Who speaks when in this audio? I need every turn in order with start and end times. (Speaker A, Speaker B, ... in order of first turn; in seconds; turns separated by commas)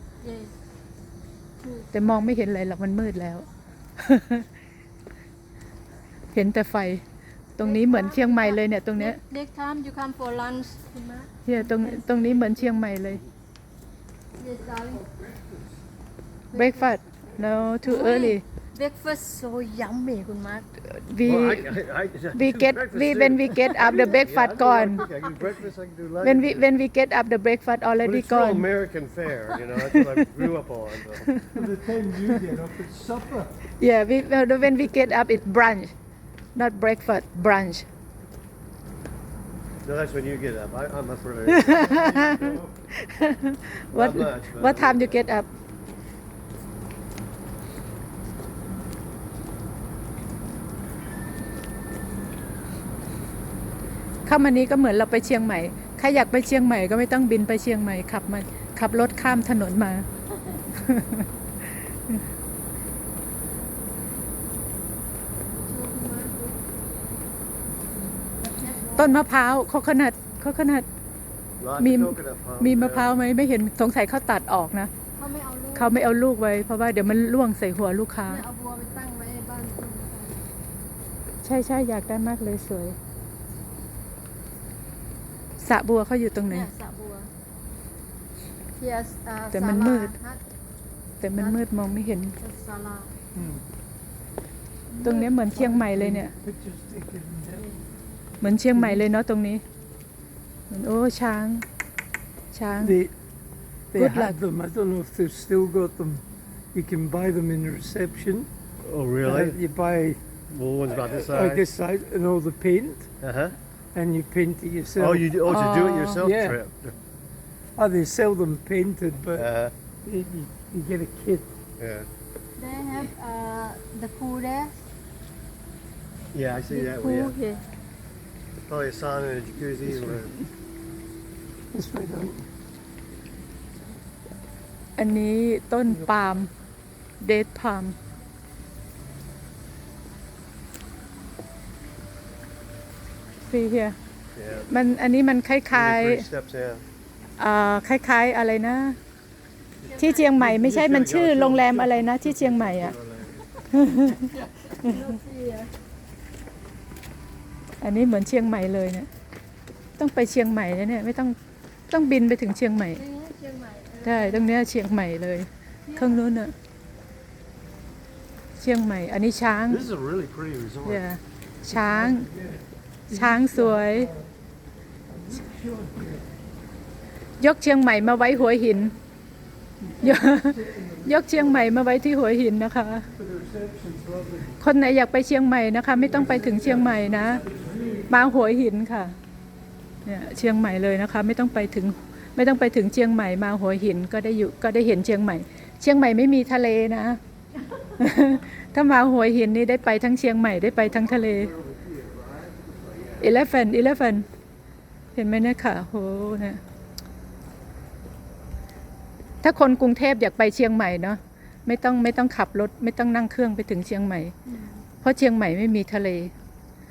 Speaker A: 0.2-0.5, Speaker A: 1.6-1.9, Speaker B: 1.9-3.5, Speaker B: 4.0-4.5, Speaker B: 6.3-7.0, Speaker B: 7.5-9.2, Speaker A: 7.6-12.8, Speaker B: 11.4-13.2, Speaker A: 14.4-15.1, Speaker A: 16.5-17.0, Speaker B: 16.5-18.4, Speaker A: 17.8-20.6, Speaker B: 20.8-21.7, Speaker C: 21.2-26.7, Speaker B: 22.3-25.1, Speaker B: 26.2-28.7, Speaker C: 28.0-31.3, Speaker B: 29.7-30.1, Speaker D: 31.5-33.5, Speaker B: 33.8-35.9, Speaker B: 36.5-37.9, Speaker C: 39.8-42.3, Speaker B: 41.5-45.5, Speaker D: 41.9-42.7, Speaker C: 43.9-45.3, Speaker B: 54.2-60.1, Speaker B: 60.7-61.3, Speaker A: 65.6-66.6, Speaker A: 68.3-69.2, Speaker B: 69.0-70.8, Speaker C: 71.6-73.2, Speaker B: 71.8-74.9, Speaker A: 75.2-76.0, Speaker B: 75.7-78.4, Speaker A: 78.2-80.4, Speaker B: 81.4-83.0, Speaker B: 85.6-86.7, Speaker A: 86.5-87.3, Speaker A: 88.8-90.4, Speaker B: 89.5-90.2, Speaker B: 91.2-92.4, Speaker A: 92.4-93.1, Speaker D: 93.3-93.6, Speaker A: 94.9-95.2, Speaker B: 95.0-96.3, Speaker D: 95.2-97.8, Speaker B: 98.4-99.6, Speaker D: 98.7-99.0, Speaker B: 100.7-101.7, Speaker B: 102.5-103.0, Speaker D: 102.8-103.1, Speaker D: 103.9-108.5, Speaker B: 103.9-104.4, Speaker C: 108.8-109.6, Speaker D: 109.2-110.2, Speaker C: 110.5-111.7, Speaker D: 110.9-113.1, Speaker C: 113.2-113.5, Speaker D: 113.9-115.3, Speaker C: 115.0-116.9, Speaker B: 115.5-116.3, Speaker D: 116.2-116.6, Speaker D: 117.8-119.5, Speaker C: 119.3-119.7, Speaker D: 120.0-121.5, Speaker C: 121.8-122.1, Speaker A: 122.6-124.8, Speaker C: 126.3-127.3, Speaker A: 126.7-127.6, Speaker C: 128.7-130.3, Speaker D: 130.0-130.3, Speaker D: 131.7-132.5, Speaker B: 135.0-136.5, Speaker B: 137.2-137.9, Speaker B: 143.4-144.0, Speaker C: 144.3-144.7, Speaker B: 144.7-146.3, Speaker C: 145.7-146.8, Speaker B: 147.4-149.0, Speaker A: 149.8-150.3, Speaker B: 149.9-152.9, Speaker C: 150.4-153.5, Speaker B: 153.7-154.3, Speaker A: 154.2-155.7, Speaker B: 157.8-159.1, Speaker B: 160.0-161.3, Speaker B: 161.9-163.0, Speaker A: 162.9-164.5, Speaker B: 164.0-166.5, Speaker A: 165.8-166.2, Speaker B: 168.6-169.8, Speaker C: 169.7-171.0, Speaker B: 170.8-172.3, Speaker D: 171.7-174.3, Speaker B: 173.1-174.1, Speaker D: 175.1-176.2, Speaker B: 177.4-178.9, Speaker D: 179.8-181.8, Speaker B: 180.0-183.1, Speaker D: 183.2-184.5, Speaker B: 184.6-187.4, Speaker D: 186.1-188.1, Speaker C: 187.4-187.9, Speaker B: 188.1-189.1, Speaker B: 190.0-197.2, Speaker B: 198.0-201.5, Speaker C: 201.0-203.4, Speaker B: 203.2-204.2, Speaker B: 205.1-206.6, Speaker B: 209.4-214.3, Speaker A: 214.4-214.8, Speaker B: 215.0-216.3